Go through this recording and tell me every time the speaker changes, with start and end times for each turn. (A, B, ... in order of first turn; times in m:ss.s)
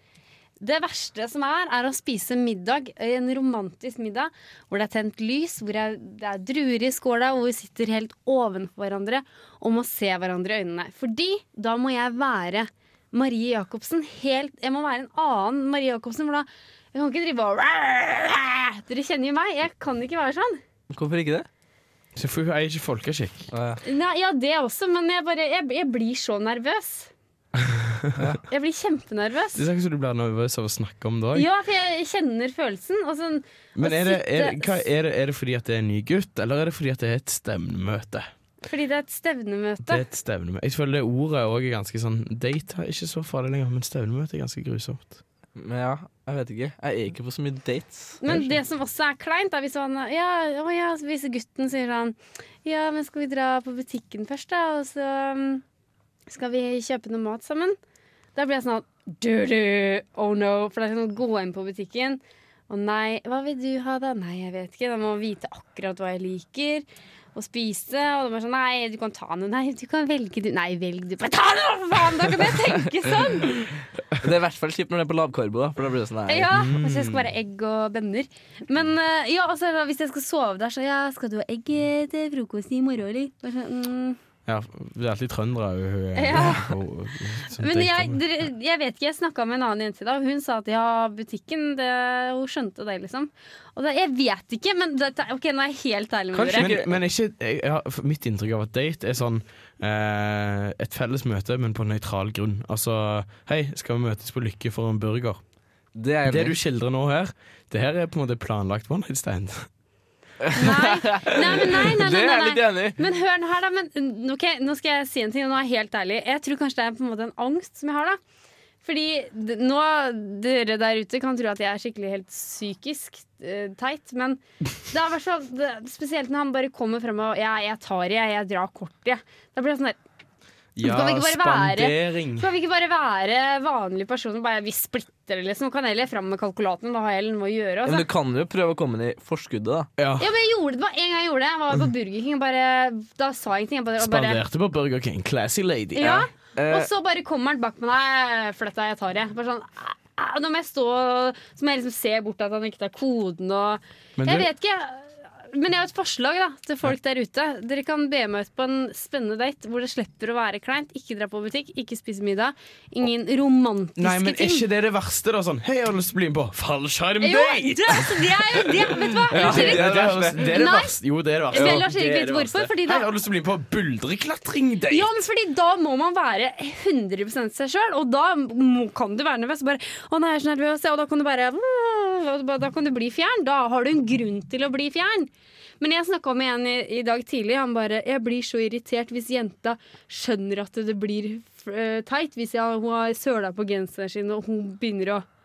0:00.6-0:20.6 A
0:20.9-0:21.5 B
0:22.2-0:23.5 C
0:23.5-0:23.8 B
0:23.8-0:27.1 A
0:27.6-0:28.4 C
0:28.5-0:29.6 A
0:29.6-0:31.5 C
0:31.3-0:34.8 A
0:33.8-0:38.3 C
0:38.7-0:40.0 A
0:39.9-0:45.2 C
0:45.6-0:48.2 B
0:48.2-0:55.6 A
0:48.2-0:48.5 C
0:56.3-0:57.8 A
0:58.4-1:13.6 A
1:13.1-1:16.5 B
1:16.3-1:24.2 A
1:16.5-1:17.3 C
1:24.5-1:28.2 C
1:26.2-1:26.7 A
1:27.6-1:36.8 A
1:36.3-1:45.4 C
1:36.5-1:36.9 B
1:46.0-1:46.6 B
1:46.3-1:49.7 C
1:50.4-1:53.0 B
1:50.6-1:58.2 A
1:58.8-2:10.0 A
2:10.8-2:12.5 C
2:10.8-2:18.1 A
2:17.8-2:19.9 B
2:20.0-2:20.3 C
2:20.2-2:24.4 A
2:24.0-2:26.2 C
2:26.0-2:44.7 A
2:26.0-2:26.9 B
2:34.2-2:34.5 C
2:44.0-2:55.1 C
2:47.2-2:51.0 A
2:49.3-2:50.5 B
2:51.5-2:53.1 A
2:51.6-2:51.8 B
2:54.9-3:15.2 A